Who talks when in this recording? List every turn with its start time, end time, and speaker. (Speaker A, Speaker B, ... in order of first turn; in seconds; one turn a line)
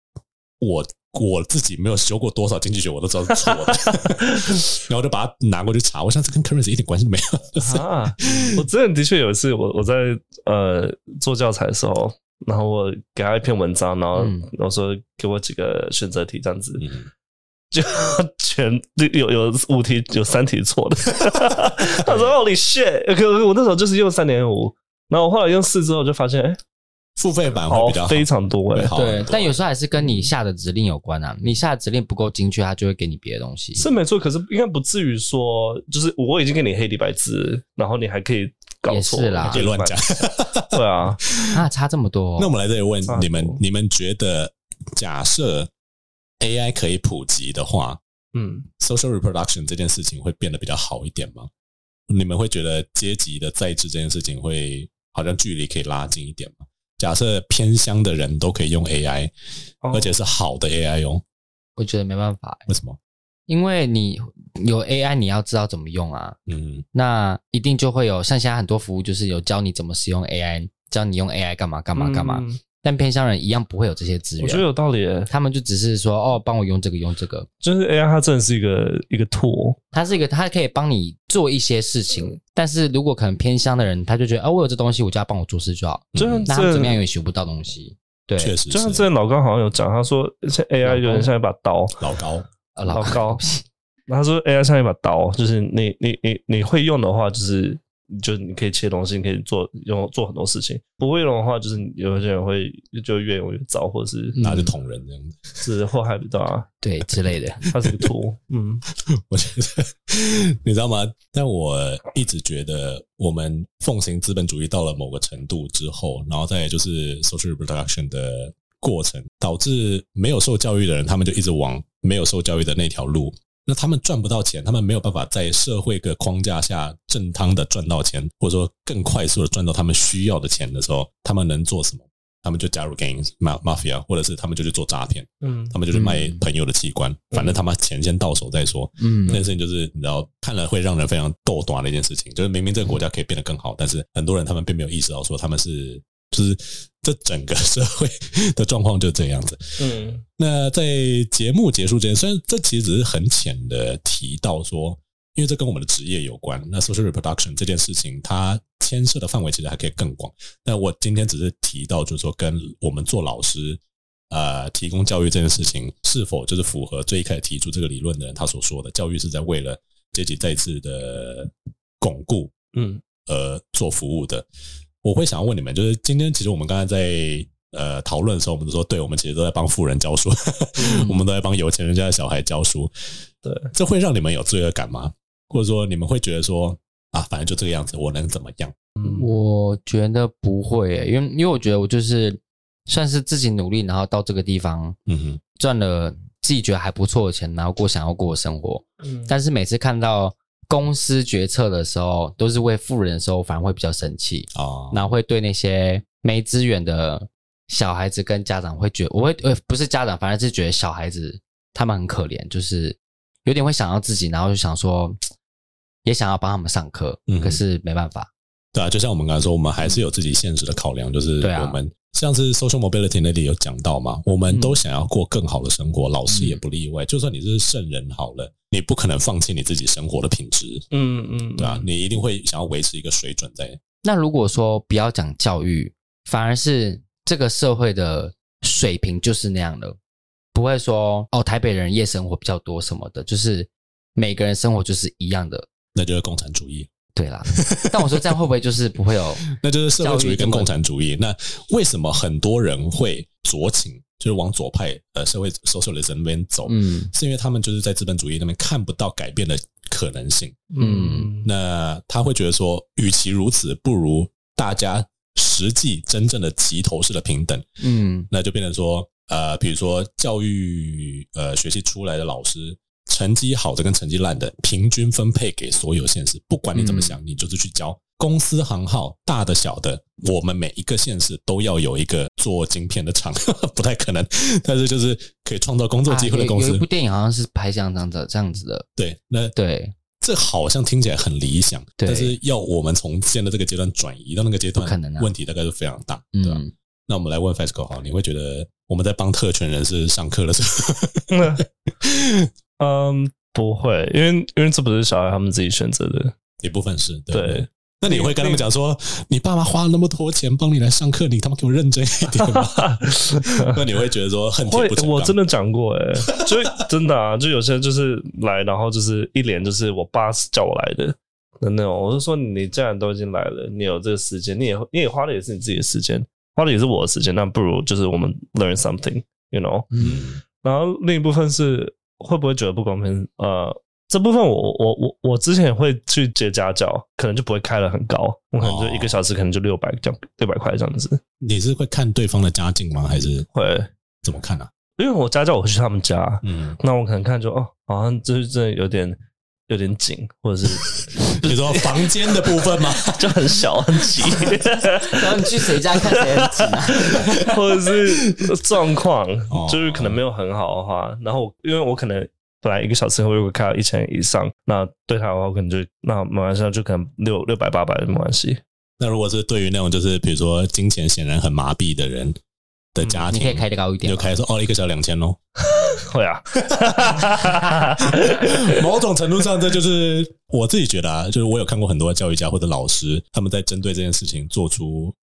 Speaker A: 0.6-8.6
Speaker B: 3.5-4.6
Speaker B: 7.6-16.9
Speaker C: 14.2-14.5
Speaker A: 16.8-17.1
Speaker B: 17.7-26.6
Speaker C: 22.1-22.3
Speaker A: 27.2-29.6
Speaker B: 27.7-28.9
Speaker C: 28.9-33.9
Speaker B: 33.8-40.0
Speaker C: 38.9-39.7
Speaker A: 39.5-41.5
Speaker B: 40.7-41.2
Speaker C: 41.5-42.5
Speaker A: 42.4-45.7
Speaker B: 43.1-43.6
Speaker A: 46.4-48.0
Speaker B: 48.3-48.7
Speaker A: 48.8-51.5
Speaker A: 52.1-59.3
Speaker B: 59.8-60.2
Speaker A: 59.9-61.2
Speaker C: 61.8-62.7
Speaker A: 62.7-63.0
Speaker C: 63.5-66.4
Speaker A: 66.5-66.9
Speaker C: 66.9-74.7
Speaker B: 72.0-72.6
Speaker B: 74.4-75.3
Speaker C: 75.3-77.5
Speaker B: 77.6-79.8
Speaker C: 79.9-88.5
Speaker A: 86.1-86.5
Speaker B: 86.2-87.0
Speaker A: 88.4-89.1
Speaker B: 88.7-92.0
Speaker C: 90.8-91.3
Speaker A: 92.0-92.5
Speaker C: 92.7-93.6
Speaker B: 92.9-93.4
Speaker B: 94.1-104.4
Speaker C: 104.3-104.7
Speaker A: 104.4-105.6
Speaker B: 105.6-106.7
Speaker C: 106.8-107.7
Speaker B: 107.7-108.8
Speaker A: 109.1-172.5
Speaker B: 135.4-135.8
Speaker C: 135.9-136.4
Speaker B: 137.3-137.6
Speaker C: 139.0-139.4
Speaker B: 149.8-150.2
Speaker B: 172.7-173.0
Speaker A: 173.2-174.4
Speaker A: 175.0-182.9
Speaker C: 180.8-181.2
Speaker B: 183.4-183.7
Speaker A: 183.7-188.8
Speaker C: 189.0-195.0
Speaker A: 195.1-195.4
Speaker C: 195.6-215.2
Speaker B: 199.0-199.3
Speaker A: 204.5-205.0
Speaker C: 216.1-218.3
Speaker A: 217.3-217.6
Speaker A: 218.7-230.9
Speaker C: 221.4-221.8
Speaker C: 224.5-224.8
Speaker C: 226.3-226.6
Speaker B: 230.9-231.9
Speaker A: 231.6-233.8
Speaker C: 234.0-240.0
Speaker C: 240.5-245.7
Speaker A: 245.9-246.9
Speaker C: 247.2-249.5
Speaker A: 247.5-248.2
Speaker A: 249.4-260.7
Speaker C: 250.0-250.7
Speaker C: 256.7-257.1
Speaker B: 260.7-261.5
Speaker C: 260.8-261.4
Speaker A: 261.4-267.7
Speaker C: 267.8-268.3
Speaker A: 268.3-286.9
Speaker C: 276.7-277.2
Speaker C: 286.1-288.9
Speaker A: 288.9-289.6
Speaker C: 289.6-289.9
Speaker A: 290.2-302.5
Speaker C: 292.0-292.4
Speaker C: 294.8-295.3
Speaker C: 296.3-296.7
Speaker B: 301.3-301.6
Speaker B: 302.8-306.4
Speaker A: 306.6-315.4
Speaker B: 307.3-308.6
Speaker B: 312.4-313.8
Speaker B: 314.7-329.9
Speaker C: 329.9-330.2
Speaker A: 329.9-330.4
Speaker B: 330.6-341.2
Speaker A: 338.6-339.2
Speaker A: 341.4-343.5
Speaker B: 343.5-343.9
Speaker A: 344.2-344.7
Speaker B: 345.0-368.6
Speaker A: 346.4-346.8
Speaker A: 351.1-353.5
Speaker A: 354.0-354.6
Speaker C: 355.0-357.6
Speaker A: 358.2-358.7
Speaker A: 359.5-360.2
Speaker A: 369.0-372.4
Speaker A: 372.9-375.4
Speaker C: 373.3-374.3
Speaker B: 375.6-378.8
Speaker A: 376.7-385.2